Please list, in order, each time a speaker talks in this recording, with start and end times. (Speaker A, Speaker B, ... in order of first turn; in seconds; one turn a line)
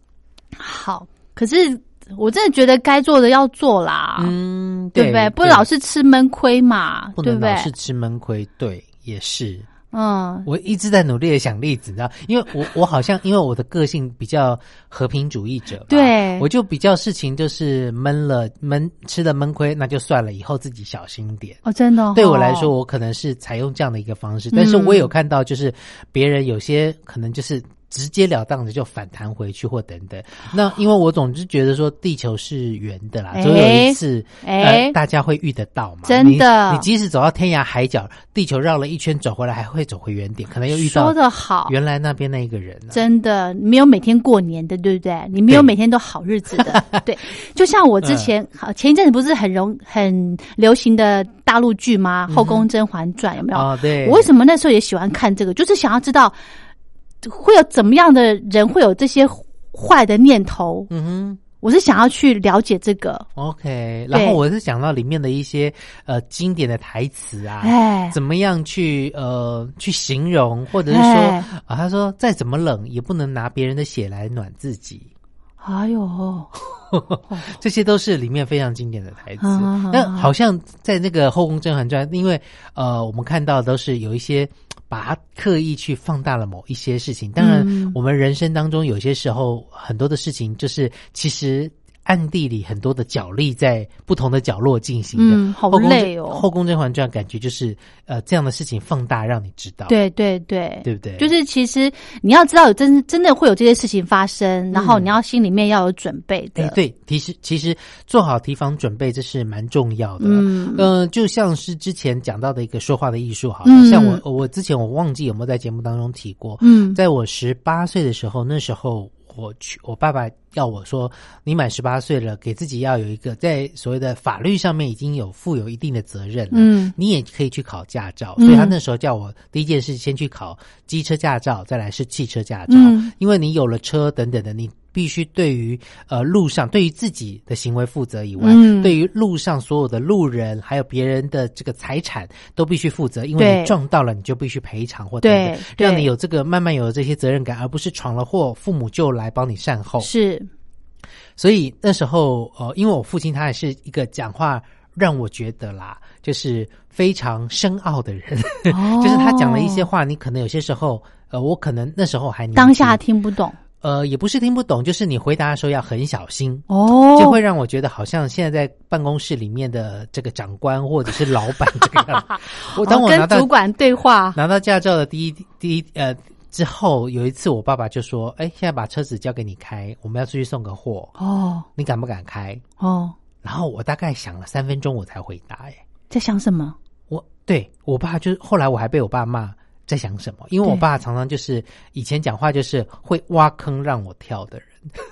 Speaker A: 0.6-4.3
Speaker B: 4.2-5.7
Speaker A: 4.9-7.7
Speaker B: 7.2-9.7
Speaker A: 9.9-10.5
Speaker B: 10.4-21.6
Speaker A: 15.9-16.5
Speaker A: 21.6-22.7
Speaker B: 22.1-43.0
Speaker A: 24.5-25.1
Speaker A: 33.3-35.0
Speaker A: 36.0-36.9
Speaker A: 40.7-41.7
Speaker A: 42.9-56.4
Speaker B: 48.0-48.3
Speaker B: 52.3-52.7
Speaker B: 53.5-54.3
Speaker A: 57.2-60.9
Speaker B: 60.9-61.4
Speaker A: 61.6-63.3
Speaker B: 63.4-75.1
Speaker A: 64.1-64.4
Speaker A: 67.6-68.2
Speaker A: 70.9-71.5
Speaker A: 75.6-76.5
Speaker B: 76.8-100.0
Speaker A: 77.3-77.5
Speaker A: 79.4-80.3
Speaker A: 87.4-88.0
Speaker A: 95.2-96.4
Speaker A: 99.9-106.8
Speaker B: 100.8-101.3
Speaker B: 104.7-105.1
Speaker B: 106.5-150.1
Speaker A: 110.2-110.9
Speaker A: 113.6-114.2
Speaker A: 116.6-117.0
Speaker A: 126.5-126.9
Speaker A: 128.4-128.8
Speaker A: 132.7-133.1
Speaker A: 138.4-138.9
Speaker A: 143.4-143.7
Speaker A: 145.2-146.1
Speaker A: 150.0-150.5
Speaker B: 151.4-163.0
Speaker A: 158.7-159.9
Speaker A: 162.5-163.6
Speaker B: 163.8-173.5
Speaker A: 166.7-167.4
Speaker A: 172.6-174.4
Speaker B: 174.3-181.1
Speaker A: 181.2-181.7
Speaker B: 181.8-182.6
Speaker A: 182.8-183.1
Speaker B: 183.4-185.8
Speaker A: 186.1-186.8
Speaker B: 187.1-194.9